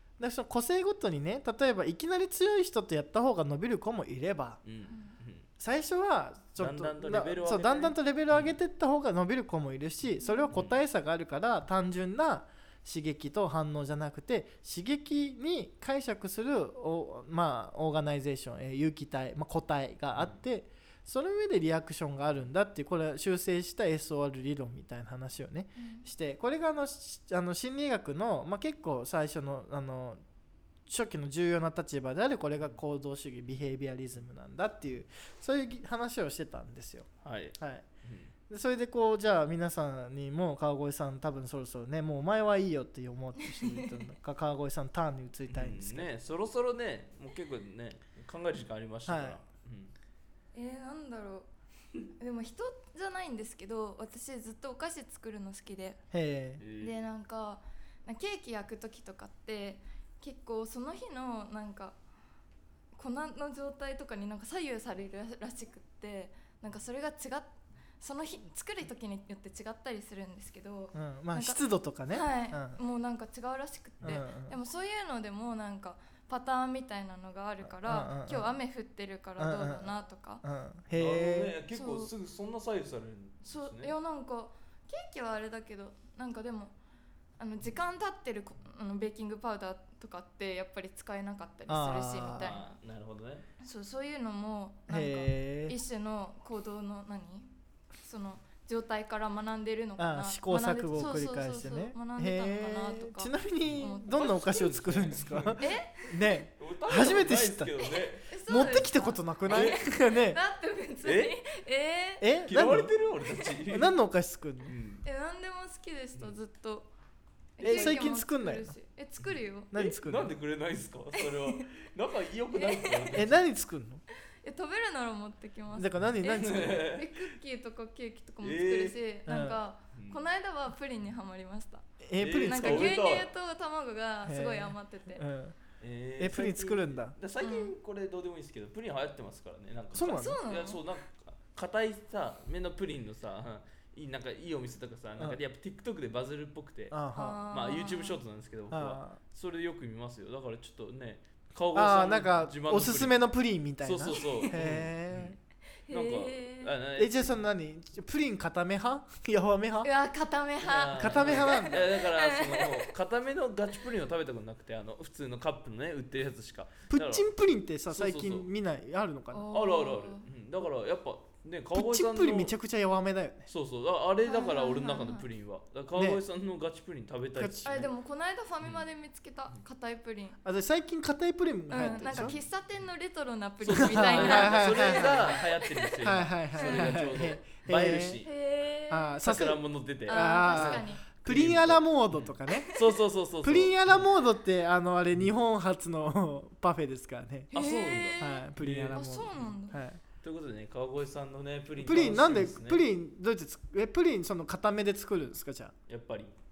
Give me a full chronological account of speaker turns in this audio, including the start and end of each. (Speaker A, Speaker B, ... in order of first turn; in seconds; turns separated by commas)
Speaker A: 0.2-4.6, Speaker B: 4.6-5.5, Speaker A: 5.6-30.2, Speaker B: 6.6-8.6, Speaker B: 10.5-10.8, Speaker C: 25.8-26.1, Speaker A: 30.9-37.8, Speaker B: 37.2-38.3, Speaker A: 38.5-46.1, Speaker C: 43.4-43.9, Speaker B: 45.5-49.9, Speaker A: 49.1-49.4, Speaker C: 50.5-51.5, Speaker C: 52.2-56.0, Speaker A: 56.1-56.6, Speaker B: 56.6-56.9, Speaker C: 56.8-62.0, Speaker C: 63.0-67.5, Speaker C: 68.0-80.4, Speaker A: 70.9-72.8, Speaker A: 74.0-74.5, Speaker A: 77.7-78.5, Speaker A: 79.4-79.9, Speaker A: 80.4-81.5, Speaker B: 80.9-83.9, Speaker C: 81.7-82.1, Speaker C: 83.4-86.7, Speaker C: 87.4-92.7, Speaker A: 91.7-92.5, Speaker B: 92.4-93.5, Speaker C: 93.6-97.5, Speaker A: 94.9-95.7, Speaker C: 98.0-104.2, Speaker A: 100.0-107.7, Speaker B: 103.6-105.6, Speaker C: 105.6-106.1, Speaker B: 106.6-108.3, Speaker C: 108.3-112.2, Speaker A: 108.5-110.4, Speaker B: 109.5-109.8, Speaker B: 111.0-111.3, Speaker A: 112.2-112.9, Speaker B: 112.5-113.9, Speaker A: 113.7-114.7, Speaker B: 114.7-115.0, Speaker C: 115.0-116.9, Speaker C: 117.6-119.7, Speaker B: 117.6-118.0, Speaker A: 117.6-118.7, Speaker B: 119.2-123.4, Speaker A: 119.7-120.3, Speaker C: 121.2-121.7, Speaker C: 122.5-123.2, Speaker A: 123.1-124.0, Speaker C: 124.4-135.2, Speaker A: 125.7-126.8, Speaker B: 126.2-127.2, Speaker B: 128.4-128.9, Speaker A: 129.3-129.6, Speaker B: 129.9-130.2, Speaker A: 132.0-132.9, Speaker B: 132.2-133.3, Speaker A: 134.2-135.5, Speaker B: 135.8-146.9, Speaker A: 136.2-137.1, Speaker C: 137.4-137.7, Speaker A: 139.9-140.4, Speaker C: 140.0-140.8, Speaker A: 146.9-147.4, Speaker C: 147.1-148.2, Speaker B: 147.5-153.1, Speaker A: 148.7-149.2, Speaker A: 151.7-155.3, Speaker B: 153.8-155.4, Speaker C: 154.1-154.5, Speaker C: 155.9-156.7, Speaker B: 155.9-157.4, Speaker A: 157.0-159.9, Speaker C: 159.8-162.9, Speaker B: 160.6-167.3, Speaker A: 160.9-161.8, Speaker A: 166.9-169.5, Speaker B: 167.9-168.5, Speaker C: 169.3-170.2, Speaker B: 169.5-172.5, Speaker A: 171.7-173.5, Speaker B: 173.5-177.9, Speaker C: 174.2-175.2, Speaker A: 175.9-176.2, Speaker A: 177.4-177.9, Speaker C: 177.6-180.4, Speaker A: 180.4-182.3, Speaker C: 181.7-186.0, Speaker B: 181.8-182.4, Speaker B: 183.6-188.3, Speaker A: 183.7-185.4, Speaker A: 186.0-188.2, Speaker C: 186.6-187.3, Speaker C: 188.2-189.2, Speaker A: 188.9-192.7, Speaker B: 189.2-194.1, Speaker C: 190.1-191.0, Speaker C: 192.5-192.9, Speaker A: 193.4-197.5, Speaker B: 197.5-199.5, Speaker C: 197.5-199.8, Speaker A: 198.2-200.0, Speaker B: 200.2-202.8, Speaker A: 201.8-205.7, Speaker B: 205.9-206.3